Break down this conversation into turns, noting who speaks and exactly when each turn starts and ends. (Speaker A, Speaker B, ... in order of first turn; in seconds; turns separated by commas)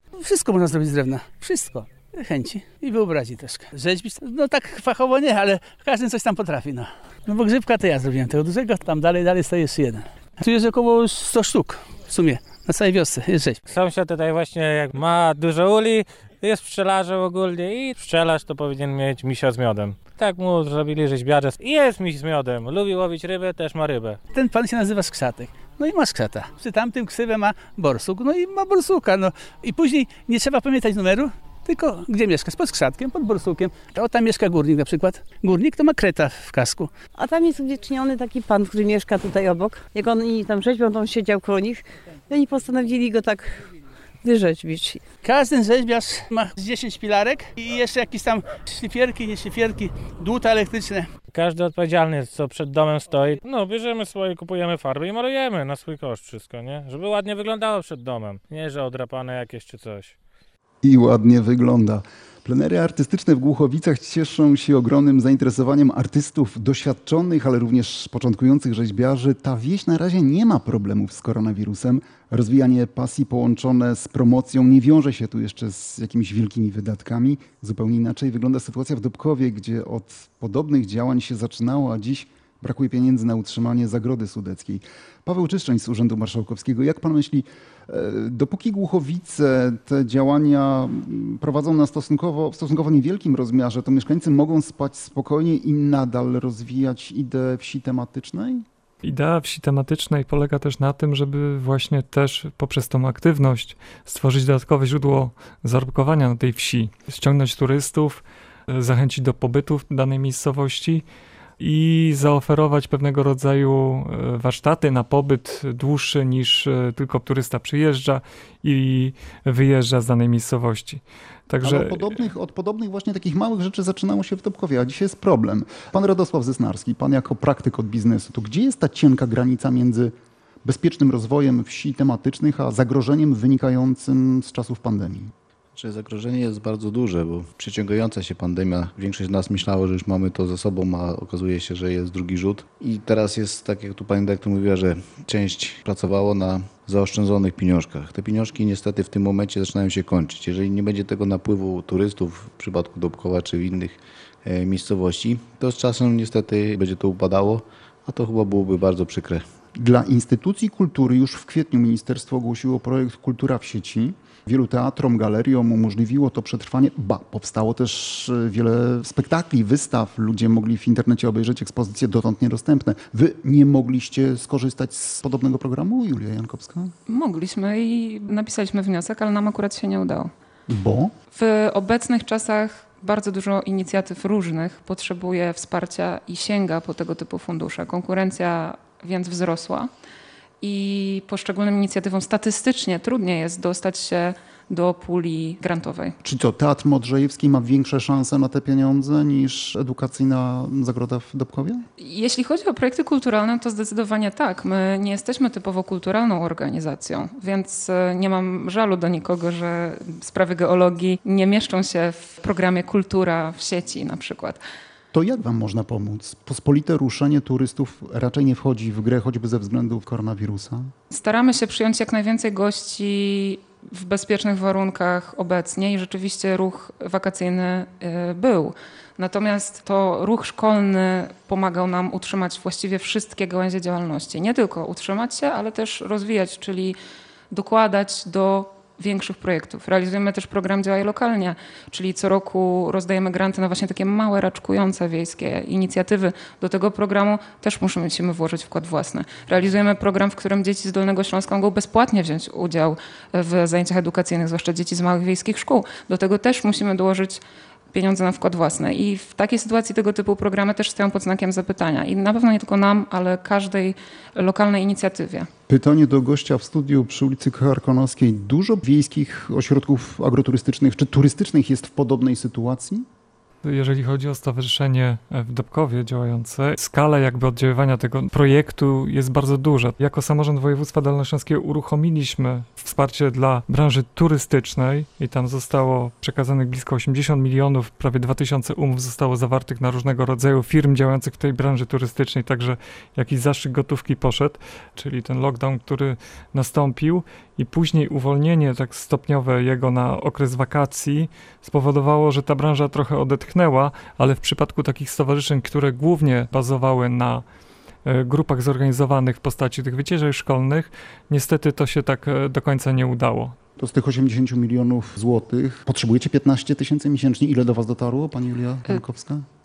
Speaker A: 0.2-13.6, Speaker B: 13.7-24.2, Speaker A: 24.3-36.9, Speaker C: 37.1-43.7, Speaker C: 44.2-45.0, Speaker A: 45.2-51.1, Speaker B: 51.3-60.1, Speaker D: 60.8-98.6, Speaker E: 99.0-111.0, Speaker E: 111.6-122.3, Speaker D: 121.6-130.1, Speaker D: 130.6-135.3, Speaker F: 135.7-159.4, Speaker D: 159.8-176.9, Speaker G: 177.1-180.3, Speaker D: 180.7-181.1, Speaker G: 181.3-189.9, Speaker G: 190.6-196.1, Speaker D: 196.2-201.8, Speaker G: 202.0-214.6, Speaker D: 215.1-220.9, Speaker G: 221.1-236.9, Speaker G: 237.5-257.4, Speaker G: 257.9-265.5, Speaker D: 265.7-273.0, Speaker E: 273.6-307.4, Speaker E: 308.1-313.6, Speaker D: 313.8-319.4